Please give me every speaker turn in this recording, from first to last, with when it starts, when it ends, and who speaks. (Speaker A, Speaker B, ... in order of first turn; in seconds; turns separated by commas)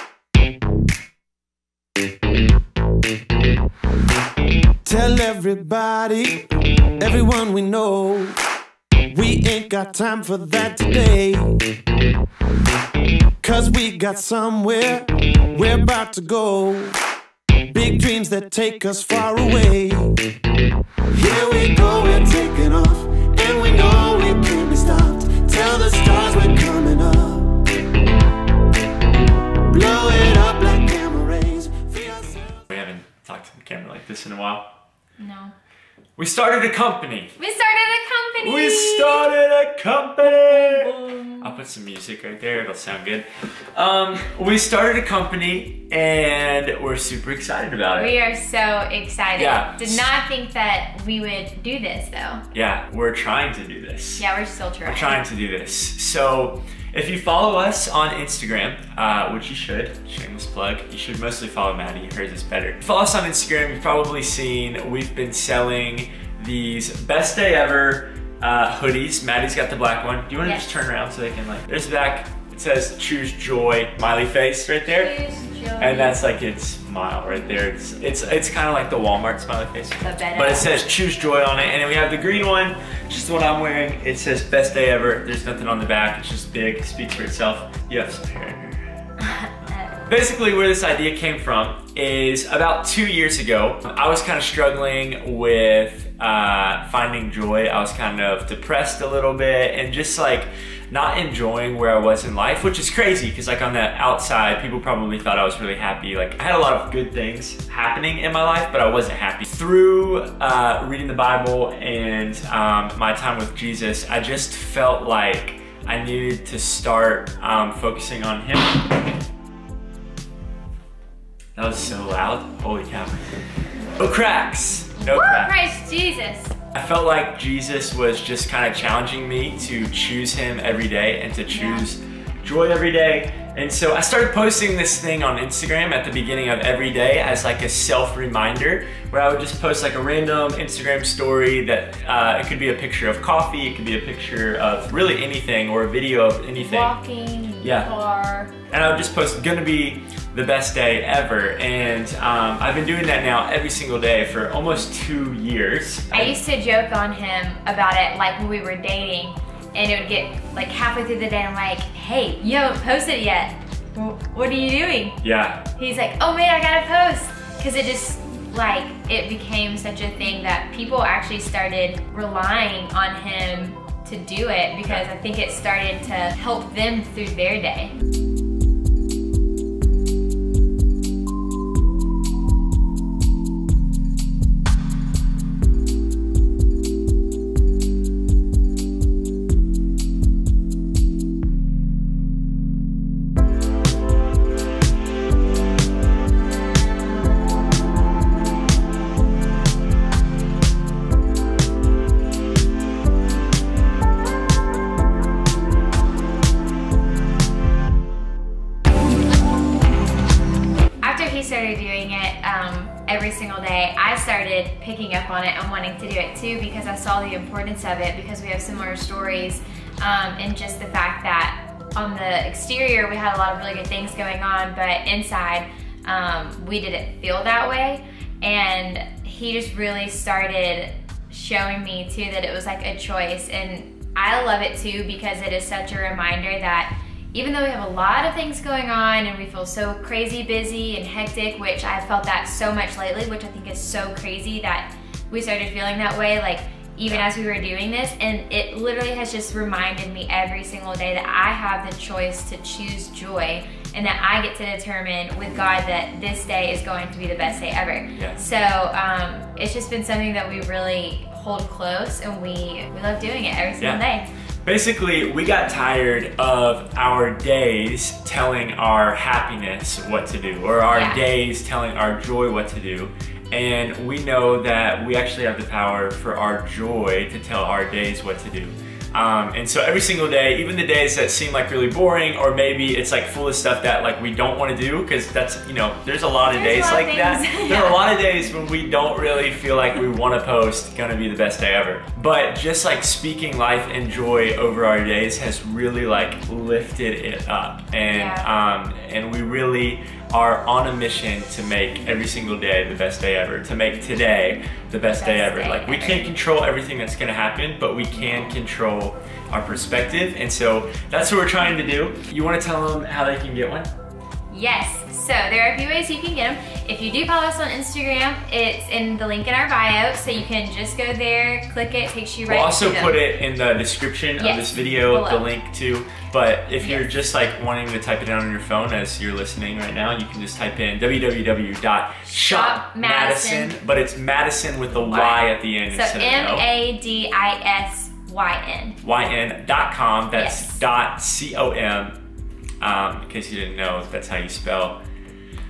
Speaker A: 4.8-6.5, Speaker A: 7.0-8.4, Speaker A: 9.1-11.6, Speaker A: 13.4-17.0, Speaker A: 17.7-20.2, Speaker A: 21.1-27.6, Speaker A: 29.7-32.6, Speaker B: 32.7-34.7, Speaker C: 35.2-35.5, Speaker B: 36.2-37.3, Speaker C: 37.4-39.3, Speaker B: 38.4-48.1, Speaker C: 40.2-41.5, Speaker C: 48.0-52.4, Speaker B: 49.4-50.1, Speaker B: 52.5-54.2, Speaker C: 54.2-55.2, Speaker B: 54.9-75.1, Speaker C: 70.4-70.8, Speaker C: 74.9-76.2, Speaker B: 75.8-88.8, Speaker C: 80.0-80.7, Speaker C: 89.2-90.0, Speaker B: 90.1-118.8, Speaker B: 121.5-123.2, Speaker B: 124.0-125.8, Speaker C: 125.0-126.5, Speaker B: 126.7-146.9, Speaker C: 131.5-131.9, Speaker C: 146.6-148.5, Speaker B: 147.6-147.9, Speaker B: 148.7-156.4, Speaker C: 156.1-165.2, Speaker B: 165.2-165.7, Speaker C: 165.8-177.9, Speaker C: 211.0-264.3, Speaker B: 264.6-313.9, Speaker C: 270.9-271.2, Speaker C: 286.4-288.0, Speaker C: 298.1-298.5, Speaker C: 305.1-306.3, Speaker C: 314.5-323.2, Speaker B: 322.5-336.7, Speaker C: 324.4-325.4, Speaker C: 326.8-327.1, Speaker C: 332.3-333.8, Speaker C: 335.0-339.0, Speaker B: 339.0-342.2, Speaker C: 340.3-340.8, Speaker B: 342.8-345.0